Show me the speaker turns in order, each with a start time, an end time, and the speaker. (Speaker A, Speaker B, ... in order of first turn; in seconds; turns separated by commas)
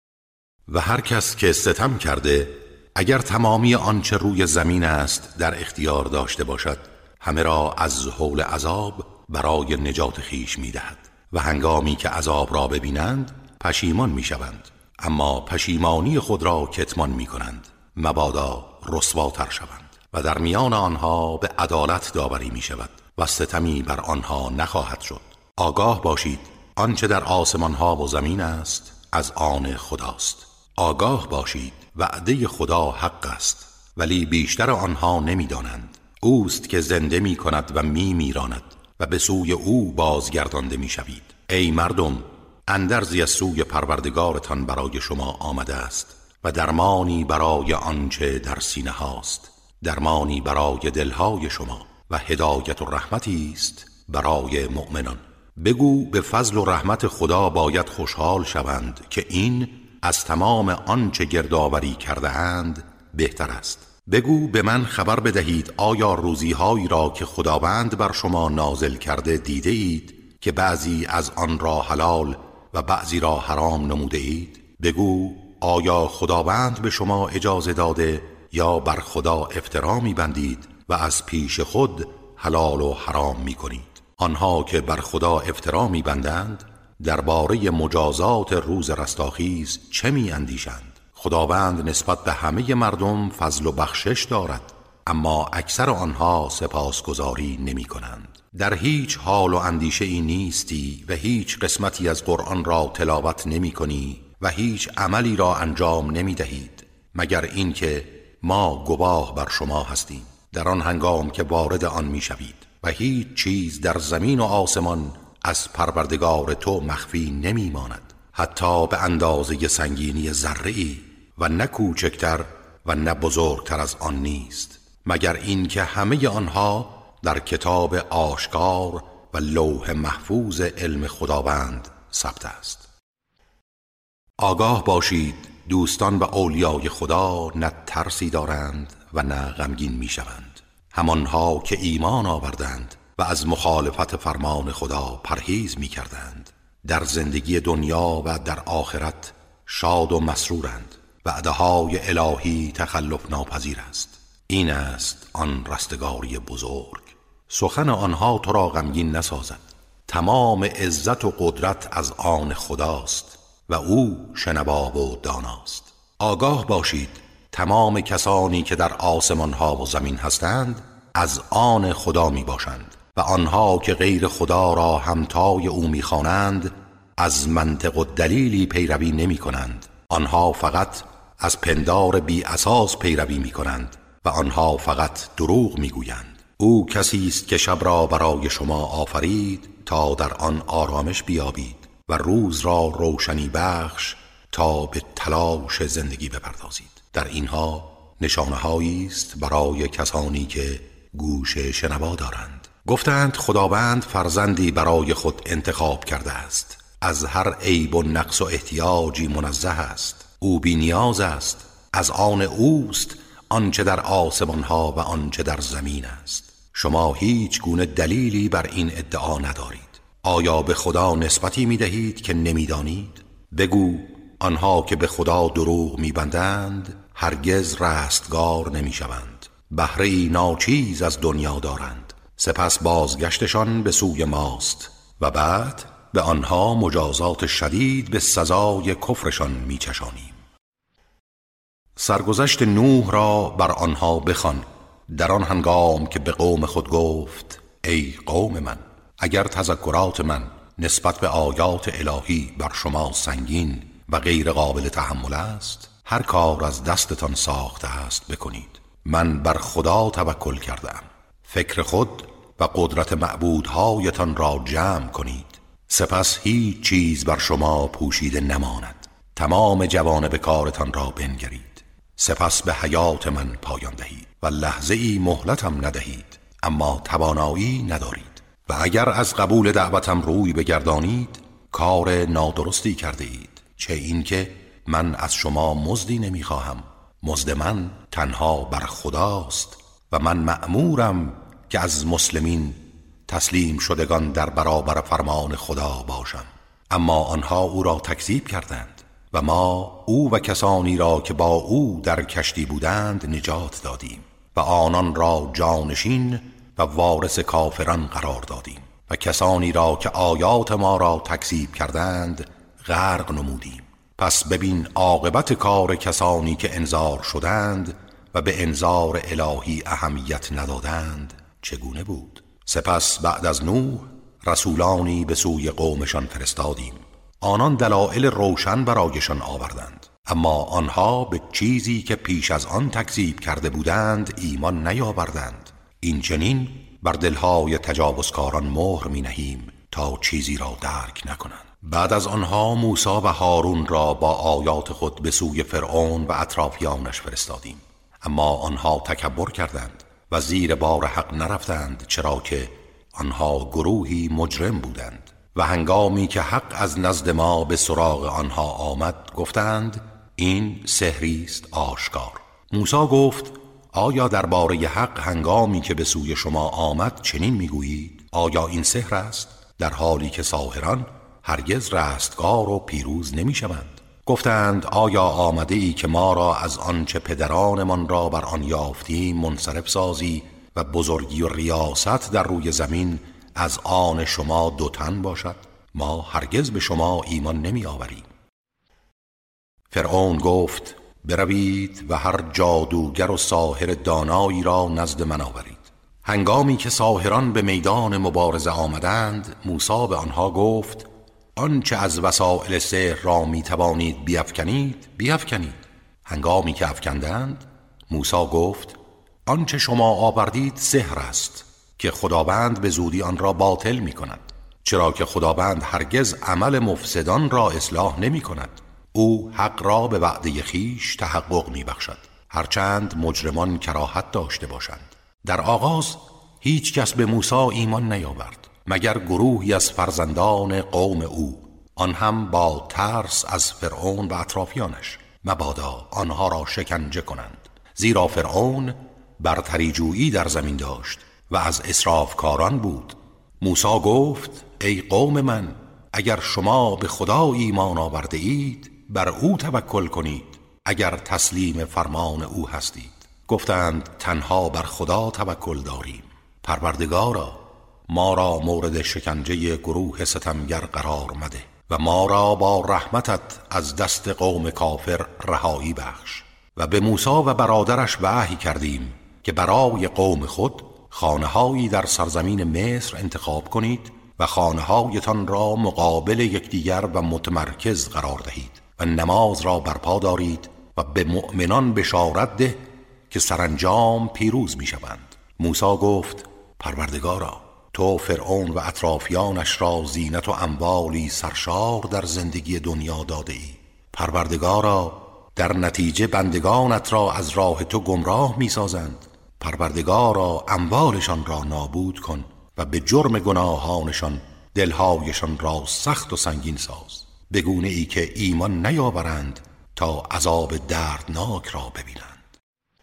Speaker A: 0.7-132.8, Speaker A: 134.4-240.4, Speaker A: 242.0-388.3, Speaker A: 389.9-512.4